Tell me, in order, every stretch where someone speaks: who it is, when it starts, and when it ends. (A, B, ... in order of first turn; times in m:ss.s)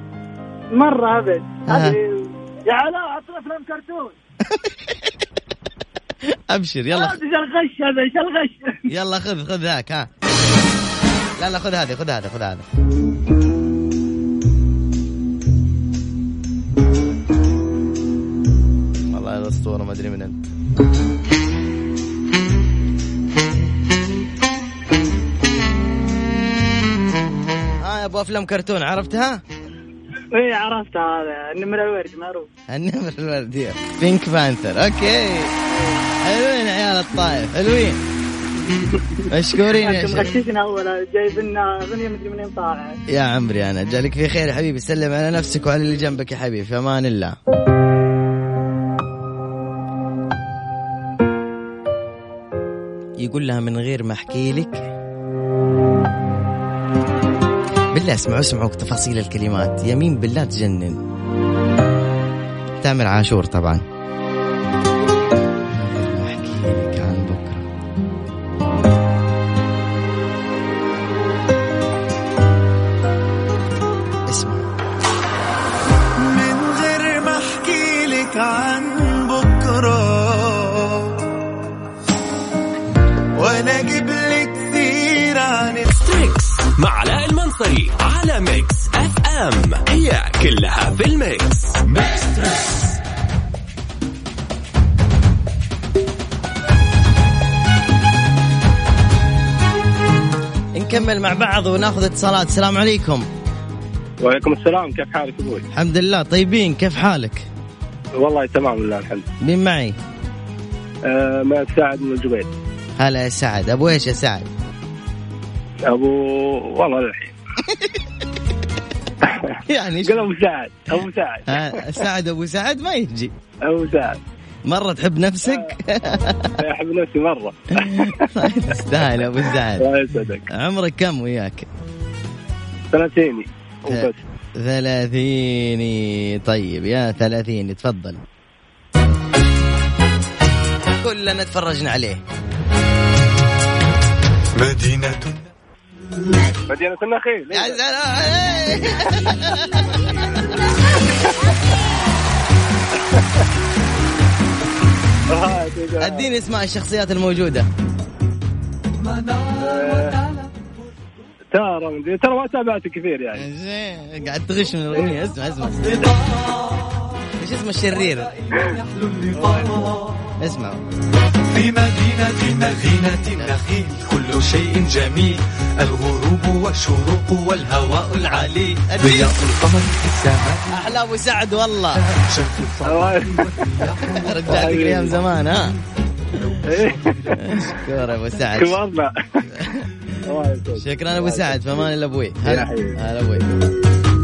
0:00.7-0:04.1 A
0:01.7-0:02.0 B
0:06.5-0:07.2 B
0:06.9-0:08.8 A
0:08.9-0:10.1 B
0:11.4-0:12.6 B
0:19.1-0:20.4 B
0:27.8-0:29.4 B
0:30.3-0:32.5 A
0:32.7-0:35.5 B
0:35.7-0:36.0 A
0:36.2-0:38.0 B
0:39.3-0:40.3 B
0:39.7-0:43.0 A
0:43.1-0:47.4 B
0:53.2-0:54.9 B
0:57.9-1:01.0 B
1:02.8-1:03.8 B
1:05.7-1:07.7 B
1:14.3-1:14.7 B
1:16.2-1:21.1 C
1:23.4-1:25.8 C
1:25.9-1:32.2 D
1:40.7-1:43.3 B
1:44.2-1:45.6 E
1:45.7-1:47.5 B
1:48.2-1:49.2 E
1:49.4-1:50.0 B
1:51.1-1:52.5 E
1:53.0-1:54.5 B
1:55.9-1:57.4 E
1:59.2-2:01.8 E
1:59.6-2:00.3 B
2:01.5-2:03.3 B
2:03.6-2:04.2 E
2:04.7-2:06.6 B
2:05.4-2:05.7 E
2:06.6-2:08.3 E
2:07.8-2:09.9 B
2:09.8-2:10.5 E
2:10.5-2:11.7 B
2:12.9-2:14.2 E
2:13.9-2:18.2 B
2:21.0-2:22.2 B
2:24.6-2:25.4 F
2:26.7-2:27.8 E
2:27.5-2:30.4 B
2:33.1-2:33.4 E
2:35.3-2:36.3 E
2:36.0-2:37.7 B
2:39.1-2:40.4 F
2:39.6-2:40.1 E
2:41.5-2:43.4 E
2:43.3-2:46.1 B
2:46.1-2:46.4 F
2:47.4-2:48.3 B
2:48.5-2:50.1 F
2:50.4-2:50.8 B
2:51.5-3:00.9 F
2:58.2-2:59.4 B
3:00.7-3:02.0 B
3:02.0-3:04.6 F
3:02.9-3:03.4 E
3:04.2-3:05.7 B
3:04.6-3:05.1 E
3:06.4-3:07.6 F
3:06.7-3:07.1 E
3:07.4-3:08.8 B
3:08.6-3:09.1 E
3:09.5-3:09.9 B
3:10.3-3:11.9 E
3:10.8-3:13.6 B
3:12.4-3:13.0 E